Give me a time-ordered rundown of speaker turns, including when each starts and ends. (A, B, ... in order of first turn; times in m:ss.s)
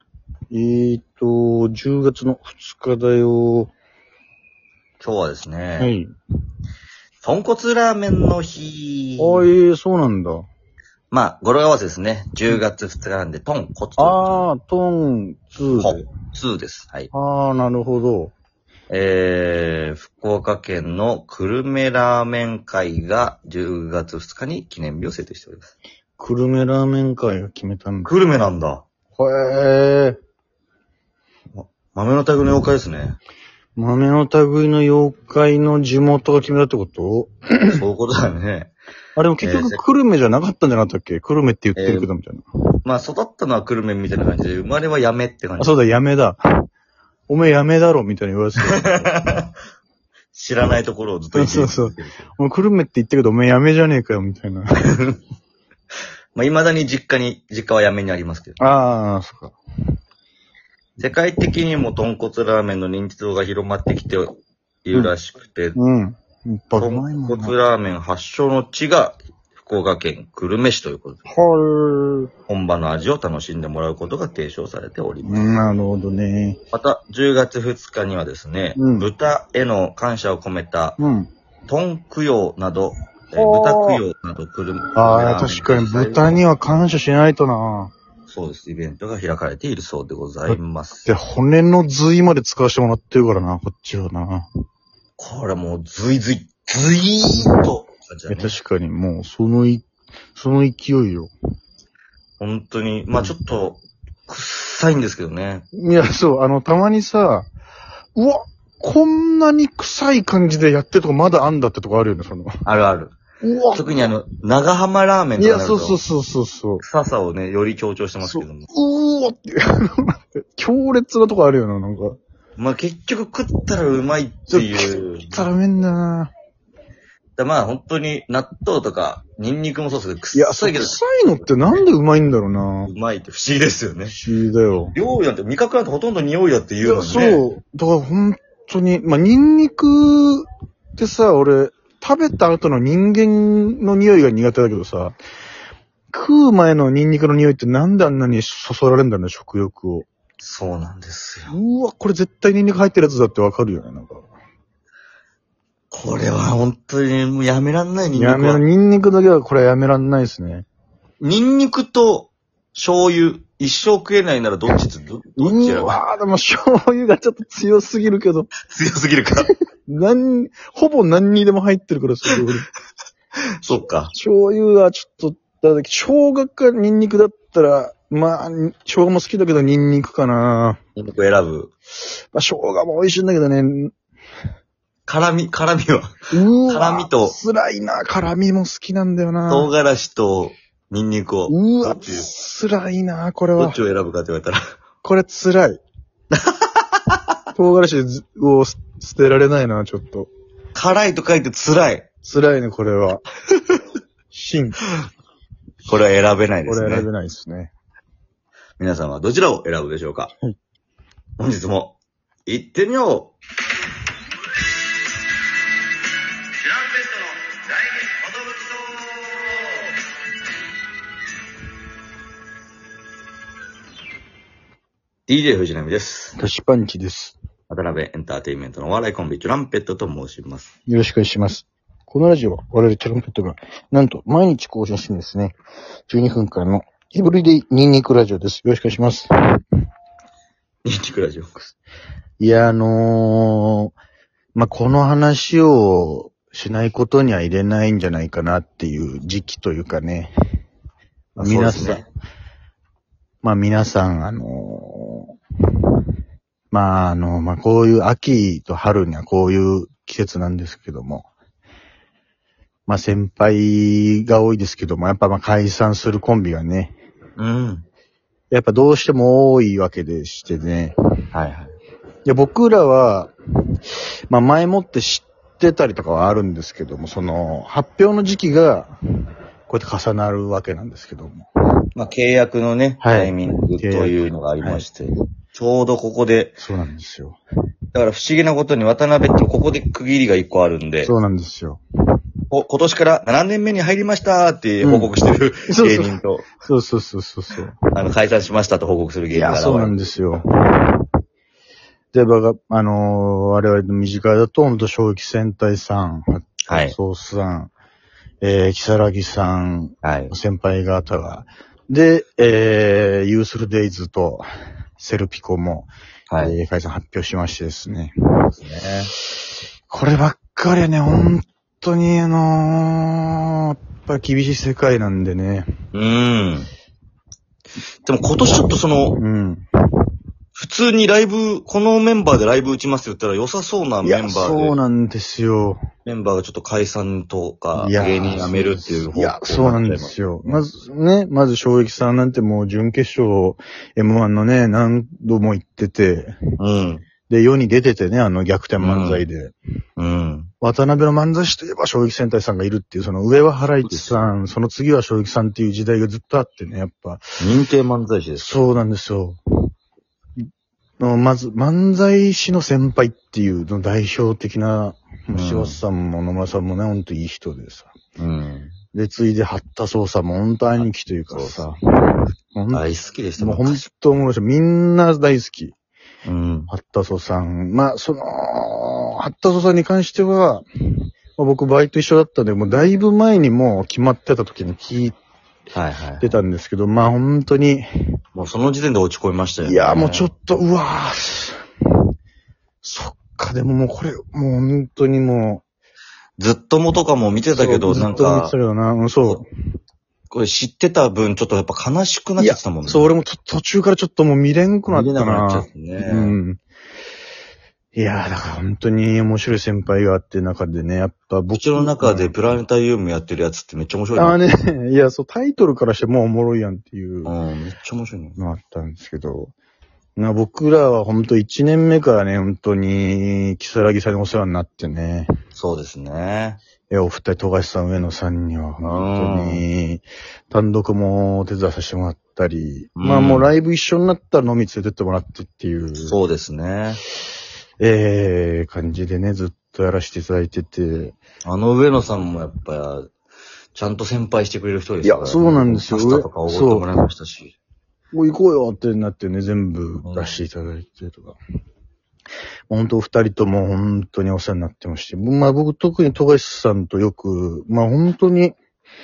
0:00.5-0:03.7 A
0:05.0-0:05.9 B
0:05.8-0:06.1 A
0:07.2-0:09.5 B
0:09.2-0:10.5 A
0:11.1-0:14.5 B
0:14.0-0:16.0 A
0:15.7-0:17.1 B
0:17.1-0:18.3 A
0:18.9-0:25.7 B
0:26.2-0:28.1 A
0:28.0-0:28.8 B
0:29.2-0:30.2 A
0:31.5-0:33.2 B
0:33.8-0:37.8 A
0:37.7-0:38.7 B
0:39.2-0:42.4 A
0:39.4-0:39.8 B
0:41.8-0:42.1 B
0:42.8-0:45.7 B
0:45.6-0:46.4 A
0:47.3-0:49.1 A
0:48.6-0:49.5 B
0:50.3-0:52.3 B
0:51.3-0:54.8 A
0:56.4-0:58.6 B
0:58.6-0:59.6 A
1:01.0-1:05.8 B
1:05.8-1:07.6 A
1:06.8-1:11.2 B
1:11.3-1:12.3 A
1:12.5-1:15.6 B
1:15.2-1:16.6 A
1:16.7-1:21.0 B
1:18.8-1:19.1 A
1:21.0-1:21.3 A
1:21.7-1:26.4 B
1:23.4-1:24.0 A
1:25.0-1:27.9 A
1:28.3-1:31.1 B
1:30.5-1:34.5 A
1:35.2-1:38.6 B
1:38.3-1:41.3 A
1:42.4-1:45.6 B
1:45.7-1:47.5 A
1:48.2-1:52.5 A
1:52.6-1:53.2 B
1:53.4-1:54.1 A
1:53.7-1:56.0 B
1:55.4-1:56.8 A
1:56.8-1:58.7 B
1:58.2-2:02.2 A
2:02.6-2:05.4 B
2:04.5-2:06.3 A
2:07.4-2:11.0 B
2:10.3-2:12.9 A
2:12.8-2:14.2 B
2:14.1-2:15.0 A
2:14.9-2:17.4 B
2:16.8-2:25.2 A
2:26.1-2:30.1 A
2:30.4-2:31.5 B
2:31.5-2:34.2 A
2:35.9-2:38.6 B
2:38.2-2:40.7 A
2:41.2-2:46.0 B
2:45.4-2:48.5 A
2:48.7-2:49.5 B
2:49.4-2:52.7 A
2:53.6-2:54.1 B
2:54.1-3:00.8 A
3:01.0-3:01.7 B
3:02.3-3:03.9 A
3:05.1-3:07.4 B
3:06.3-3:09.7 A
3:09.5-3:12.3 B
3:11.5-3:13.8 A
3:13.6-3:14.6 B
3:15.0-3:15.8 A
3:16.3-3:17.2 B
3:17.6-3:20.3 A
3:20.8-3:22.1 B
3:22.2-3:23.2 A
3:24.3-3:24.8 A
3:25.9-3:27.1 B
3:26.7-3:27.7 A
3:28.8-3:30.3 B
3:31.4-3:33.3 B
3:36.6-3:39.7 B
3:45.3-3:46.4 B
3:46.4-3:47.4 A
3:47.7-3:50.7 B
3:50.9-3:55.6 A
3:56.1-3:59.3 A
4:00.8-4:01.7 B
4:02.4-4:03.9 A
4:04.6-4:10.3 A
4:11.4-4:12.1 B
4:11.4-4:12.1 A
4:13.4-4:15.4 A
4:16.7-4:21.3 A
4:22.9-4:27.0 A
4:27.4-4:27.8 B
4:28.5-4:31.0 A
4:31.3-4:31.8 B
4:32.2-4:33.3 A
4:34.3-4:39.0 A
4:39.7-4:41.5 A
4:42.0-4:46.6 B
4:43.0-4:44.9 A
4:46.6-4:47.4 A
4:47.9-4:51.1 B
4:51.0-4:51.8 A
4:52.5-4:56.5 B
4:54.8-4:55.1 A
4:55.7-4:57.8 A
4:57.9-5:00.0 B
4:59.3-5:01.0 A
5:02.1-5:07.7 A
5:06.7-5:07.0 B
5:08.4-5:14.5 A
5:10.0-5:10.3 B
5:15.0-5:18.5 A
5:16.3-5:16.6 B
5:18.5-5:19.1 B
5:19.9-5:25.7 A
5:25.9-5:26.7 B
5:28.0-5:29.2 B
5:29.2-5:29.7 A
5:30.6-5:34.8 B
5:34.0-5:35.8 A
5:36.0-5:40.6 B
5:37.8-5:46.4 A
5:46.6-5:47.0 B
5:47.3-5:49.6 A
5:48.8-5:49.2 B
5:50.0-5:50.5 B
5:50.6-5:57.3 A
5:53.8-5:54.2 B
5:57.4-5:58.5 B
5:58.4-5:59.4 A
6:01.0-6:07.9 A
6:05.3-6:05.8 B
6:08.2-6:08.7 B
6:08.9-6:12.8 A
6:10.8-6:11.7 B
6:12.7-6:13.9 B
6:13.4-6:15.8 A
6:16.2-6:16.7 B
6:16.7-6:25.2 A
6:25.7-6:26.4 B
6:26.2-6:28.2 A
6:28.4-6:30.3 B
6:29.6-6:31.6 A
6:32.8-6:35.6 A
6:36.4-6:38.5 B
6:37.5-6:39.5 A
6:40.3-6:43.1 B
6:42.4-6:46.6 A
6:44.9-6:46.4 B
6:48.0-6:52.4 A
6:51.5-6:54.4 B
6:54.2-6:57.3 A
6:57.2-6:58.4 B
6:58.4-6:59.5 A
7:00.2-7:05.3 A
7:05.6-7:06.6 B
7:06.9-7:16.2 A
7:08.8-7:09.6 B
7:13.0-7:13.5 B
7:16.1-7:17.0 B
7:17.8-7:21.2 A
7:21.4-7:23.1 B
7:23.8-7:27.6 B
7:25.0-7:26.9 A
7:28.1-7:31.4 A
7:30.0-7:30.4 B
7:32.7-7:38.6 A